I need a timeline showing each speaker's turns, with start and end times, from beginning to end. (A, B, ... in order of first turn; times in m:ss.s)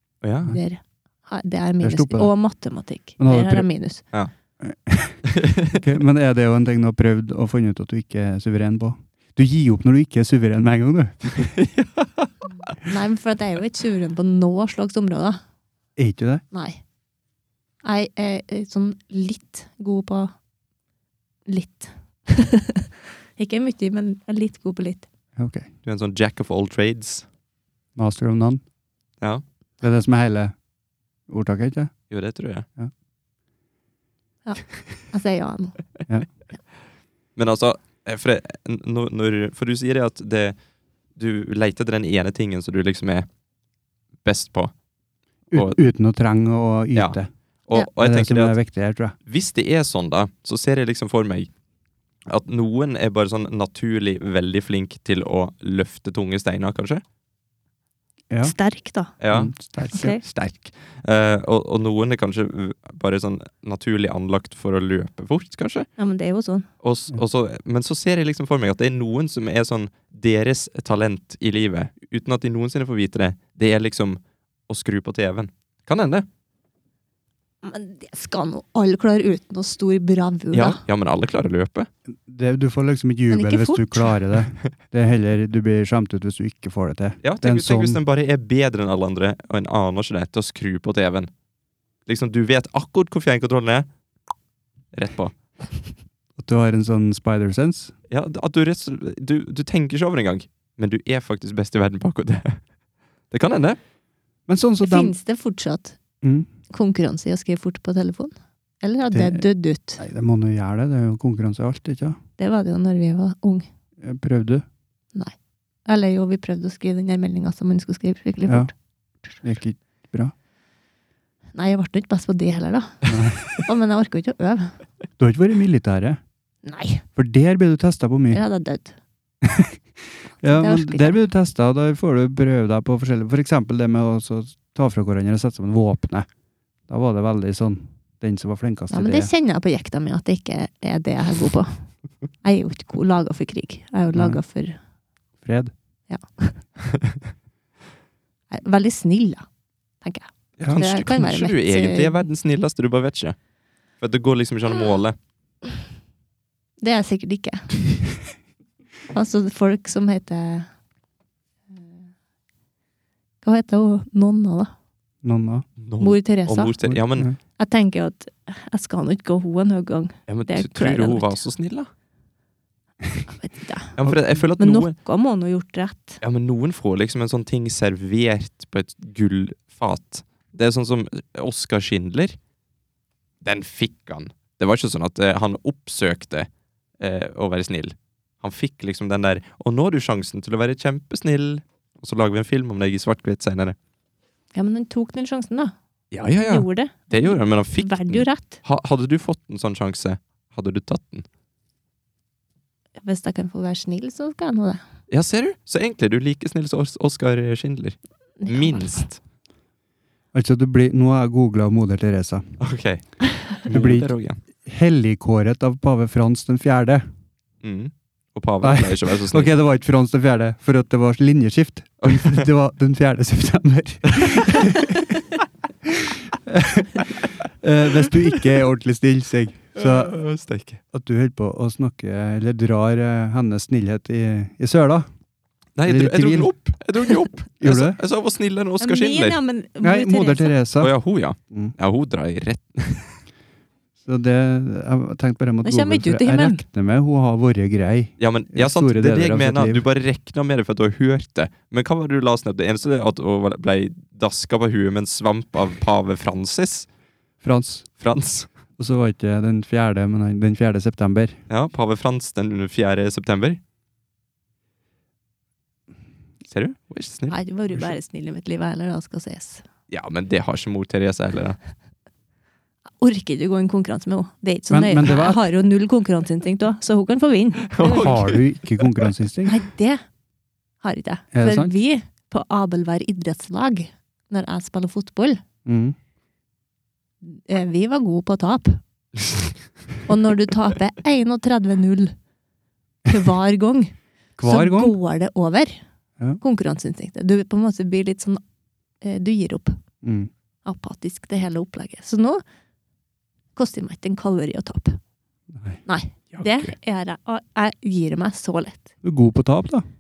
0:00.2-0:00.6 A
0:00.5-0:04.0 B
0:01.8-0:02.3 C
0:03.2-0:03.7 C
0:04.6-0:05.2 C
0:05.3-0:05.8 A
0:05.7-0:11.5 C
0:11.3-0:12.3 A
0:12.8-0:15.4 B
0:16.0-0:16.4 C
0:16.5-0:16.8 B
0:17.8-0:20.3 B
0:21.5-0:25.1 B
0:25.4-0:25.7 C
0:25.8-0:27.3 A
0:28.0-0:28.6 C
0:29.8-0:30.6 C
0:31.3-0:31.9 C
0:32.1-0:32.6 A
0:34.4-0:35.8 B
0:37.4-0:40.6 A
0:41.2-0:43.3 A
0:44.2-0:44.7 A
0:45.5-0:47.3 C
0:45.5-0:45.8 A
0:47.0-0:48.6 A
0:48.0-0:49.2 C
0:49.3-0:51.5 A
0:52.3-0:57.0 A
0:58.3-0:58.6 C
0:58.4-0:59.2 B
0:59.2-1:05.9 A
0:59.3-1:00.1 C
0:59.9-1:00.2 B
1:06.0-1:06.7 B
1:06.8-1:16.3 A
1:17.6-1:20.8 B
1:20.5-1:21.9 A
1:22.3-1:28.0 C
1:23.3-1:24.2 B
1:27.2-1:31.3 A
1:32.1-1:33.9 A
1:34.9-1:35.4 A
1:36.4-1:37.9 C
1:38.1-1:42.6 A
1:43.3-1:43.8 A
1:44.5-1:45.1 C
1:44.8-1:46.0 B
1:46.2-1:46.5 C
1:46.7-1:50.0 B
1:49.1-1:49.4 C
1:50.0-1:52.2 C
1:52.4-1:53.7 B
1:54.0-1:54.6 C
1:55.9-1:58.7 B
1:58.5-1:58.7 C
1:59.4-2:00.3 C
2:01.6-2:03.0 B
2:03.1-2:03.4 C
2:03.6-2:04.8 B
2:05.2-2:06.2 C
2:06.6-2:07.0 B
2:07.2-2:08.4 C
2:08.3-2:09.0 B
2:09.4-2:09.8 C
2:10.4-2:16.3 C
2:10.4-2:11.2 B
2:16.9-2:19.3 C
2:18.9-2:21.8 B
2:22.4-2:24.8 B
2:24.1-2:24.4 C
2:25.4-2:25.7 C
2:26.1-2:26.6 B
2:28.5-2:29.5 B
2:30.0-2:32.2 B
2:30.6-2:33.4 A
2:34.0-2:35.2 A
2:36.8-2:37.7 B
2:39.1-2:40.7 B
2:43.4-2:44.7 B
2:45.2-2:45.7 C
2:45.8-2:47.3 A
2:46.0-2:46.8 B
2:46.8-2:47.4 C
2:47.6-2:51.5 B
2:50.3-2:51.9 A
2:53.3-2:54.0 B
2:54.0-2:55.0 A
2:54.6-2:56.2 B
2:56.2-3:02.4 A
3:03.4-3:06.5 A
3:07.0-3:13.8 A
3:14.5-3:15.7 B
3:16.1-3:21.3 A
3:16.4-3:18.6 B
3:23.0-3:24.8 B
3:25.1-3:29.2 A
3:28.4-3:29.0 B
3:30.3-3:32.5 C
3:32.6-3:34.4 A
3:33.7-3:34.1 C
3:34.6-3:37.1 C
3:37.6-3:39.5 A
3:38.6-3:44.9 C
3:42.0-3:42.4 A
3:44.1-3:44.8 A
3:45.8-3:50.2 C
3:49.8-3:50.8 A
3:50.9-3:55.1 C
3:55.8-3:59.4 A
3:55.9-3:56.5 C
3:57.6-3:58.0 C
3:58.8-4:00.6 B
3:59.8-4:00.9 C
4:00.8-4:03.2 A
4:04.0-4:09.8 C
4:05.6-4:06.6 B
4:08.2-4:16.9 A
4:17.4-4:17.9 C
4:18.0-4:18.5 A
4:18.8-4:21.4 C
4:21.5-4:23.6 A
4:26.5-4:27.4 A
4:27.3-4:29.6 B
4:29.9-4:31.6 A
4:33.0-4:38.2 B
4:34.7-4:35.4 C
4:37.7-4:39.0 A
4:37.9-4:39.6 C
4:39.5-4:40.0 B
4:40.8-4:45.4 B
4:41.3-4:41.7 C
4:45.6-4:46.0 C
4:47.2-4:48.8 B
4:50.1-4:52.2 B
4:53.1-4:55.8 B
4:54.4-4:55.0 C
4:56.4-4:58.4 B
4:59.0-4:59.8 B
5:00.0-5:00.3 C
5:00.6-5:02.4 B
5:03.6-5:05.0 B
5:05.5-5:05.8 C
5:05.9-5:08.9 B
5:06.3-5:06.7 A
5:09.0-5:09.8 C